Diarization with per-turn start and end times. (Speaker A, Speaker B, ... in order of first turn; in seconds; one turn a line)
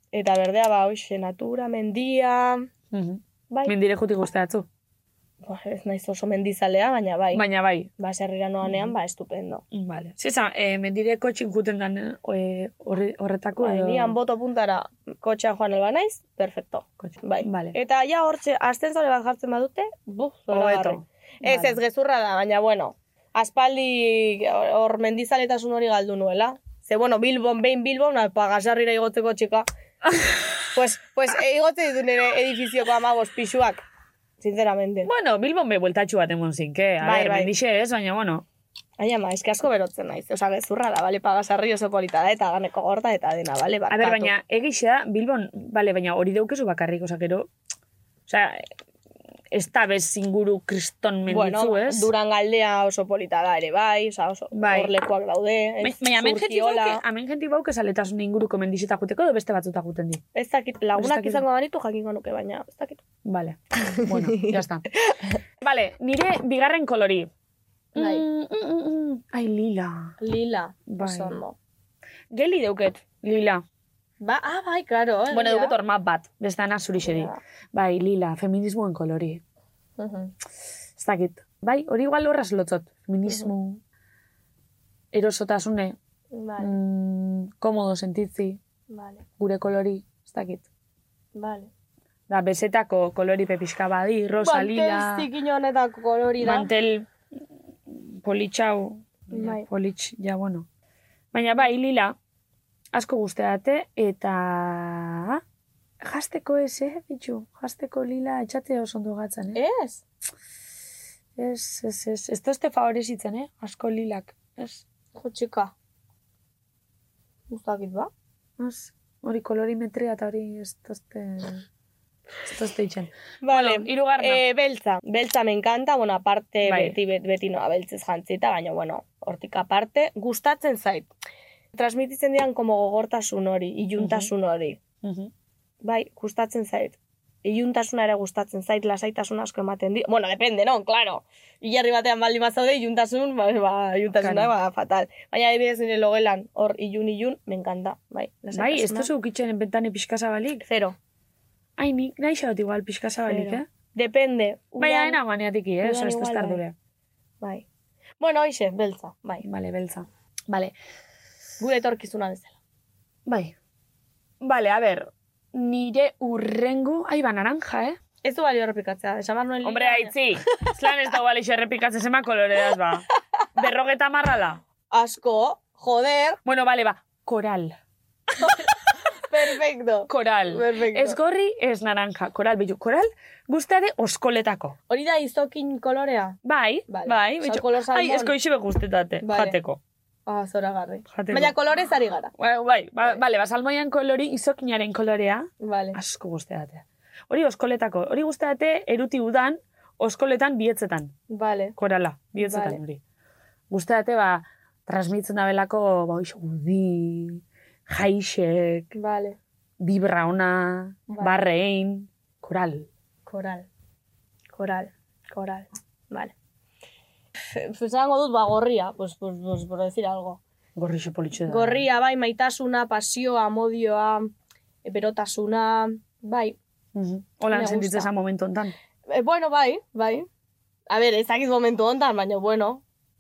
Speaker A: 0.1-2.7
Speaker B: 2.9-4.7
Speaker A: 5.4-7.4
Speaker B: 7.3-7.9
Speaker A: 8.0-9.6
Speaker B: 9.7-14.2
Speaker A: 13.6-29.7
Speaker B: 17.0-17.8
Speaker B: 20.5-21.8
Speaker A: 30.7-33.8
Speaker A: 34.4-35.1
Speaker B: 35.0-38.5
Speaker A: 37.0-37.5
Speaker A: 39.0-44.3
Speaker B: 43.9-47.5
Speaker B: 48.3-48.7
Speaker B: 49.5-52.1
Speaker A: 51.3-57.0
Speaker B: 54.5-54.9
Speaker B: 55.8-60.2
Speaker A: 60.3-63.0
Speaker B: 61.0-61.4
Speaker B: 63.2-64.9
Speaker A: 63.9-64.5
Speaker B: 65.6-67.3
Speaker B: 68.0-70.2
Speaker A: 68.0-68.2
Speaker A: 70.2-71.6
Speaker B: 70.9-71.4
Speaker B: 72.3-73.6
Speaker A: 74.2-75.8
Speaker B: 75.3-79.4
Speaker A: 77.0-77.4
Speaker A: 80.0-80.3
Speaker B: 81.0-83.8
Speaker B: 85.1-86.0
Speaker A: 86.3-86.7
Speaker B: 86.6-88.6
Speaker A: 88.9-89.2
Speaker B: 89.4-90.7
Speaker A: 91.3-91.7
Speaker B: 92.3-95.3
Speaker A: 94.4-96.7
Speaker B: 96.4-97.1
Speaker B: 97.9-100.7
Speaker A: 99.3-99.7
Speaker B: 101.3-102.2
Speaker B: 102.9-105.4
Speaker B: 106.0-109.6
Speaker A: 109.5-110.0
Speaker B: 111.4-114.8
Speaker A: 115.2-115.7
Speaker A: 117.5-118.1
Speaker B: 118.6-121.6
Speaker B: 122.5-124.4
Speaker A: 123.4-131.1
Speaker B: 126.7-127.0
Speaker A: 131.7-134.8
Speaker B: 134.0-134.3
Speaker B: 135.0-135.3
Speaker A: 135.8-149.1
Speaker B: 144.2-144.5
Speaker B: 148.5-150.7
Speaker A: 150.7-151.0
Speaker B: 151.8-153.7
Speaker A: 153.3-155.2
Speaker B: 154.8-156.8
Speaker A: 155.8-156.6
Speaker A: 158.2-159.4
Speaker B: 159.4-160.7
Speaker A: 161.6-162.5
Speaker B: 163.3-163.5
Speaker B: 164.4-168.0
Speaker A: 168.2-170.2
Speaker B: 169.6-173.1
Speaker B: 173.6-174.6
Speaker A: 174.9-176.4
Speaker B: 176.5-177.8
Speaker A: 178.4-178.7
Speaker A: 179.3-181.2
Speaker B: 180.1-184.8
Speaker A: 184.9-188.3
Speaker B: 186.4-189.8
Speaker A: 189.2-189.6
Speaker A: 190.3-192.3
Speaker B: 191.1-191.6
Speaker B: 192.4-201.1
Speaker A: 195.6-196.0
Speaker A: 201.3-201.8
Speaker B: 201.8-203.0
Speaker A: 202.4-202.8
Speaker B: 203.7-208.9
Speaker A: 208.9-209.4
Speaker B: 209.8-212.9
Speaker A: 211.1-211.4
Speaker A: 213.3-213.7
Speaker A: 214.5-216.3
Speaker A: 217.5-220.4
Speaker B: 220.8-221.8
Speaker A: 221.5-224.3
Speaker A: 224.8-226.6
Speaker B: 226.9-228.8
Speaker A: 227.5-228.1
Speaker A: 229.1-230.3
Speaker A: 230.9-232.8